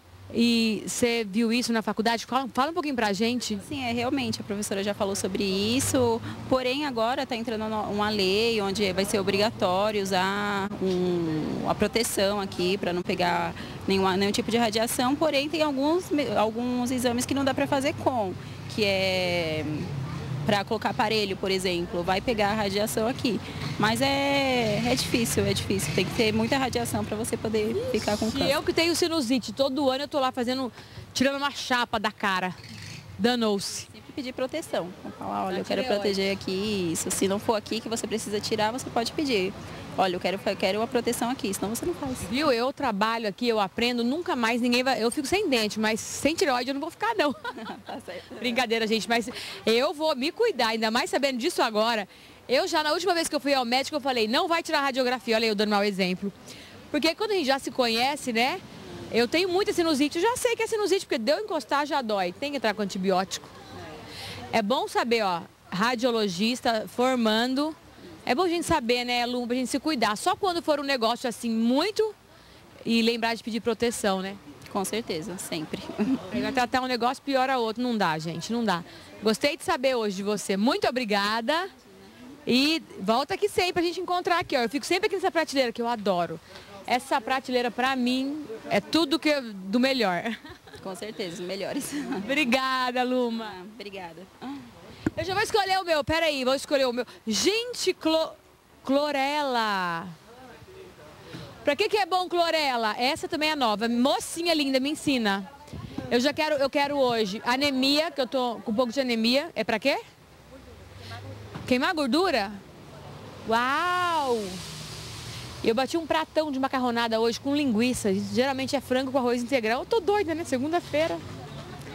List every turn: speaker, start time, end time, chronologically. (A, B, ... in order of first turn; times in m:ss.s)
0:00.3-0:03.6 A
0:03.6-0:19.9 B
0:20.4-0:28.6 B
0:27.7-0:32.6 A
0:33.2-0:33.9 A
0:33.9-0:42.3 B
0:35.5-0:36.2 A
0:42.3-0:47.8 A
0:47.6-0:48.6 B
0:48.3-0:56.3 A
0:56.9-1:03.5 A
1:04.5-1:12.1 A
1:12.8-1:14.4 A
1:14.7-1:16.3 B
1:16.3-1:21.7 A
1:22.4-1:30.4 A
1:30.8-1:32.3 B
1:32.2-1:33.5 A
1:33.3-1:34.6 B
1:35.1-1:40.1 A
1:41.6-1:45.5 A
1:46.1-1:50.0 A
1:51.6-1:52.6 A
1:53.4-1:54.6 A
1:55.6-2:01.2 A